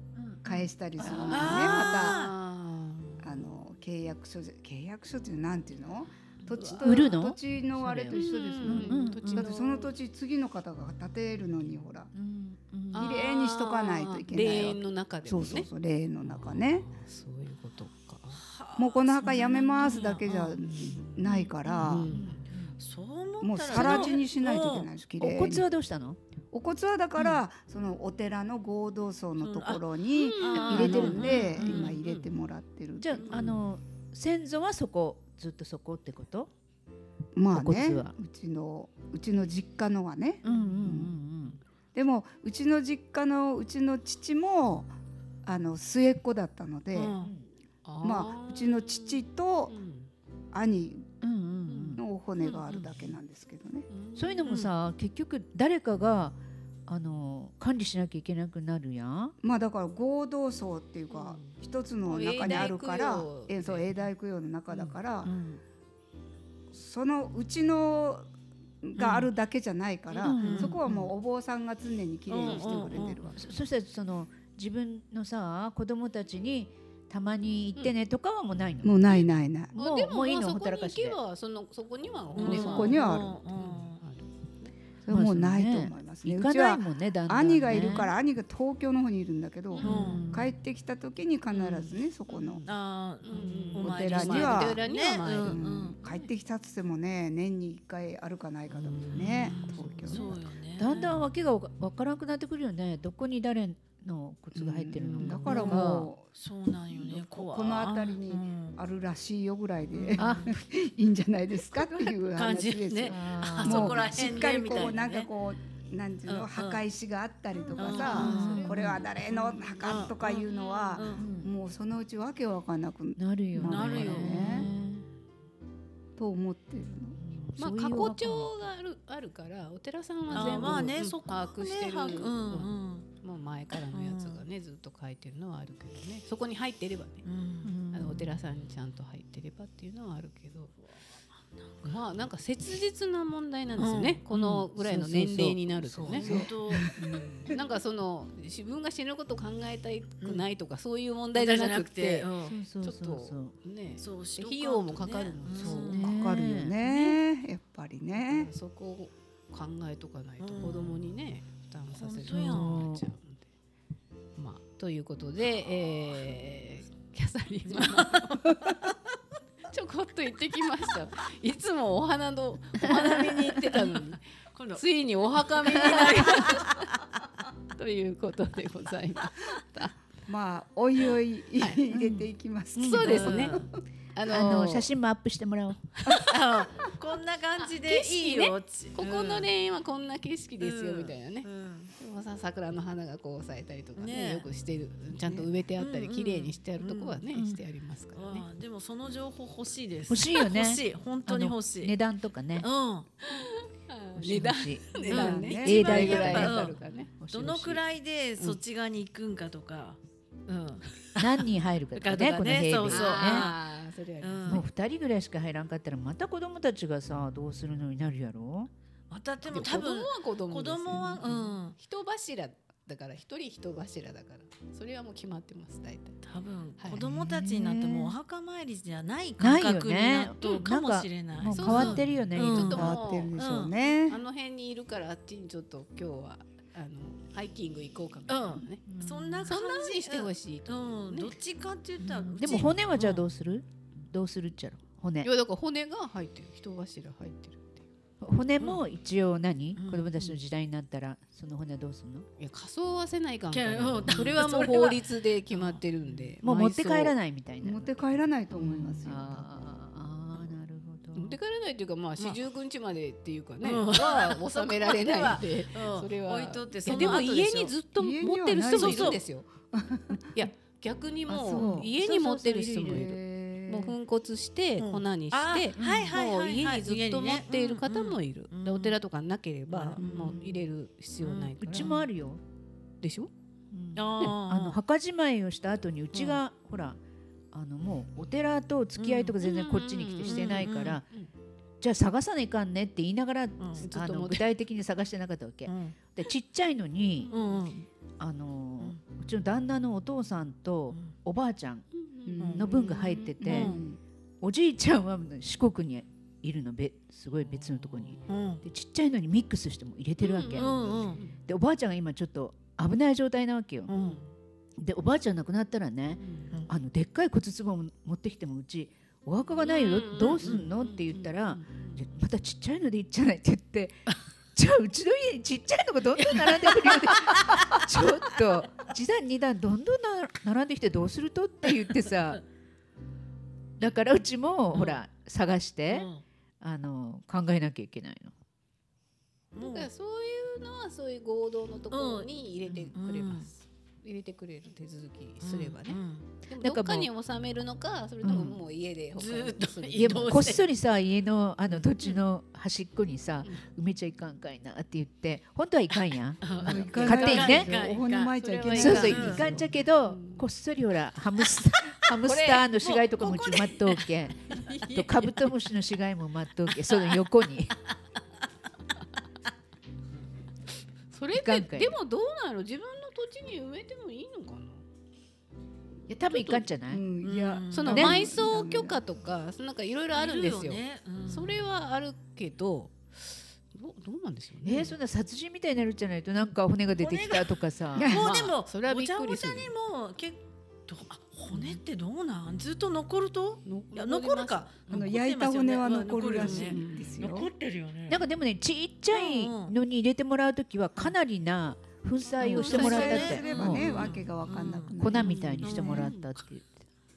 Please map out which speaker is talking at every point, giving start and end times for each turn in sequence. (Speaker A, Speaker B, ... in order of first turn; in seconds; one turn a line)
Speaker A: 0.1-0.5
Speaker B: 0.4-2.2
Speaker C: 1.0-3.3
Speaker A: 1.0-1.3
Speaker D: 1.1-2.3
Speaker B: 3.2-12.1
Speaker C: 6.5-7.0
Speaker A: 6.8-9.5
Speaker C: 8.1-9.9
Speaker A: 12.1-13.2
Speaker C: 12.9-15.7
Speaker B: 12.9-16.9
Speaker C: 16.2-18.4
Speaker D: 18.3-20.6
Speaker B: 18.8-22.1
Speaker C: 20.7-22.5
Speaker A: 21.2-22.8
Speaker D: 22.8-24.9
Speaker B: 23.4-25.6
Speaker A: 23.7-24.1
Speaker A: 25.2-26.2
Speaker B: 26.5-33.4
Speaker D: 29.4-29.8
Speaker C: 30.1-32.3
Speaker D: 30.4-32.0
Speaker A: 30.6-31.8
Speaker A: 33.0-36.5
Speaker C: 33.2-33.6
Speaker B: 37.3-41.1
Speaker A: 37.5-38.1
Speaker A: 40.4-41.6
Speaker C: 40.5-40.8
Speaker B: 41.9-44.9
Speaker B: 45.4-47.2
Speaker D: 46.9-47.3
Speaker A: 47.2-47.5
Speaker C: 47.8-50.1
Speaker B: 48.0-49.7
Speaker B: 50.5-51.1
Speaker A: 51.2-52.0
Speaker C: 51.7-52.9
Speaker B: 52.0-53.9
Speaker C: 53.9-54.5
Speaker A: 54.1-59.3
Speaker D: 54.4-54.7
Speaker B: 59.4-65.3
Speaker C: 61.1-63.9
Speaker A: 65.2-65.6
Speaker B: 66.7-68.3
Speaker B: 68.8-73.4
Speaker D: 69.0-69.3
Speaker A: 70.2-71.1
Speaker D: 70.3-70.8
Speaker D: 72.3-73.2
Speaker C: 72.4-72.8
Speaker A: 73.3-81.2
Speaker B: 78.8-79.7
Speaker C: 79.7-84.7
Speaker D: 82.3-84.0
Speaker B: 82.4-83.4
Speaker B: 85.0-92.6
Speaker A: 85.1-88.1
Speaker C: 89.7-90.3
Speaker D: 89.8-90.2
Speaker A: 89.8-90.5
Speaker D: 91.5-91.9
Speaker C: 92.3-92.7
Speaker D: 92.6-96.2
Speaker C: 93.2-95.6
Speaker A: 93.4-93.7
Speaker B: 93.8-94.8
Speaker B: 95.4-100.3
Speaker C: 98.7-100.1
Speaker D: 99.2-101.2
Speaker A: 99.5-106.1
Speaker B: 104.5-106.3
Speaker D: 105.4-108.8
Speaker B: 106.9-124.7
Speaker D: 109.9-110.3
Speaker A: 110.2-110.6
Speaker D: 112.3-115.3
Speaker A: 113.1-114.1
Speaker D: 116.2-116.8
Speaker D: 117.8-118.7
Speaker C: 117.8-119.7
Speaker A: 118.0-119.0
Speaker D: 119.8-121.2
Speaker A: 121.1-121.5
Speaker A: 123.2-125.0
Speaker D: 123.6-124.7
Speaker B: 126.2-127.2
Speaker A: 127.2-128.7
Speaker C: 127.6-137.2
Speaker D: 130.3-133.1
Speaker D: 133.8-134.4
Speaker D: 137.2-137.7
Speaker A: 137.6-138.3
Speaker C: 137.9-140.7
Speaker C: 141.8-146.2
Speaker D: 143.8-144.2
Speaker A: 144.3-146.5
Speaker B: 145.9-147.5
Speaker D: 146.1-146.9
Speaker C: 147.4-152.3
Speaker D: 151.3-152.6
Speaker A: 152.4-153.5
Speaker C: 152.8-156.0
Speaker D: 154.0-156.0
Speaker B: 155.6-158.5
Speaker A: 155.6-156.8
Speaker C: 156.8-157.2
Speaker C: 158.2-163.5
Speaker D: 160.4-161.0
Speaker D: 162.0-162.9
Speaker A: 162.3-163.1
Speaker C: 164.3-168.4
Speaker D: 167.7-168.9
Speaker C: 169.7-174.2
Speaker D: 173.7-174.0
Speaker D: 174.5-174.8
Speaker C: 174.7-176.8
Speaker D: 175.5-177.2
Speaker C: 177.8-179.9
Speaker B: 180.3-183.8
Speaker A: 181.9-183.0
Speaker C: 182.8-184.9
Speaker D: 182.9-183.7
Speaker A: 184.3-185.8
Speaker B: 186.1-186.3
Speaker D: 186.2-189.5
Speaker C: 187.6-198.4
Speaker D: 190.6-191.9
Speaker D: 193.9-194.5
Speaker D: 195.8-197.2
Speaker A: 197.3-197.6
Speaker D: 198.1-202.0
Speaker A: 200.1-202.7
Speaker D: 202.6-203.1
Speaker C: 203.2-207.1
Speaker A: 204.2-207.8
Speaker D: 205.0-206.8
Speaker B: 205.0-206.4
Speaker D: 207.3-211.4
Speaker A: 211.2-213.5
Speaker D: 211.9-213.6
Speaker C: 212.9-214.6
Speaker D: 214.2-214.6
Speaker A: 214.4-218.7
Speaker D: 219.1-221.7
Speaker C: 219.4-226.2
Speaker D: 226.2-233.7
Speaker A: 227.0-228.1
Speaker A: 229.4-233.0
Speaker C: 231.5-238.8
Speaker B: 232.6-234.2
Speaker D: 238.3-243.2
Speaker A: 238.9-239.5
Speaker C: 239.5-241.3
Speaker A: 242.0-245.3
Speaker C: 245.2-247.8
Speaker A: 248.2-252.3
Speaker D: 249.8-250.1
Speaker C: 252.4-257.1
Speaker D: 253.5-256.3
Speaker A: 254.0-254.3
Speaker A: 256.4-258.2
Speaker B: 257.6-259.4
Speaker C: 258.6-259.0
Speaker A: 259.0-261.4
Speaker C: 261.1-269.5
Speaker D: 263.6-267.7
Speaker B: 267.9-270.3
Speaker D: 268.7-269.2
Speaker C: 270.3-282.0
Speaker B: 271.3-271.9
Speaker A: 271.5-273.1
Speaker B: 272.9-273.9
Speaker D: 274.8-279.0
Speaker A: 275.8-276.1
Speaker D: 279.7-280.4
Speaker B: 280.0-280.4
Speaker D: 281.2-281.8
Speaker A: 281.6-282.4
Speaker C: 283.0-283.3
Speaker A: 283.7-287.0
Speaker D: 283.9-284.8
Speaker A: 287.5-291.0
Speaker D: 289.0-289.3
Speaker C: 289.4-291.3
Speaker D: 290.2-291.0
Speaker A: 291.8-297.3
Speaker D: 293.6-293.9
Speaker C: 293.8-294.4
Speaker D: 295.6-295.9
Speaker C: 297.2-297.6
Speaker D: 297.3-297.9
Speaker A: 298.2-301.9
Speaker C: 301.9-303.3
Speaker B: 302.3-304.0
Speaker D: 302.4-302.6
Speaker A: 302.5-303.8
Speaker D: 303.4-303.8
Speaker A: 304.4-313.9
Speaker D: 308.3-308.6
Speaker C: 310.2-311.4
Speaker D: 310.5-311.2
Speaker D: 313.9-314.2
Speaker C: 313.9-314.2
Speaker A: 314.8-332.4
Speaker C: 316.2-316.6
Speaker C: 319.6-322.0
Speaker D: 320.2-320.7
Speaker D: 327.3-327.7
Speaker A: 333.8-336.1
Speaker D: 334.7-335.0
Speaker D: 335.9-336.2
Speaker A: 336.6-338.3
Speaker D: 339.5-339.9
Speaker C: 339.6-350.6
Speaker D: 341.9-343.5
Speaker D: 345.4-346.3
Speaker A: 346.6-347.1
Speaker A: 348.2-348.6
Speaker D: 349.1-350.6
Speaker A: 349.9-357.8
Speaker D: 356.4-359.5
Speaker C: 356.4-357.1
Speaker B: 356.6-359.7
Speaker C: 358.4-360.4
Speaker A: 358.7-367.8
Speaker C: 362.2-362.7
Speaker D: 362.8-364.1
Speaker C: 364.5-365.1
Speaker C: 371.1-374.8
Speaker A: 371.3-372.0
Speaker A: 376.1-377.0
Speaker C: 376.3-376.6
Speaker B: 376.9-379.0
Speaker D: 377.2-378.1
Speaker C: 377.7-384.9
Speaker A: 377.9-378.2
Speaker D: 380.1-381.7
Speaker A: 384.6-388.1
Speaker D: 386.9-398.2
Speaker B: 388.0-388.2
Speaker C: 388.1-389.7
Speaker C: 391.5-391.8
Speaker C: 393.6-395.0
Speaker B: 394.9-397.5
Speaker C: 396.4-397.1
Speaker A: 398.1-403.9
Speaker D: 399.1-399.7
Speaker C: 402.4-404.1
Speaker B: 402.4-405.9
Speaker D: 402.6-404.9
Speaker A: 405.0-406.8
Speaker C: 405.1-406.3
Speaker D: 405.6-406.1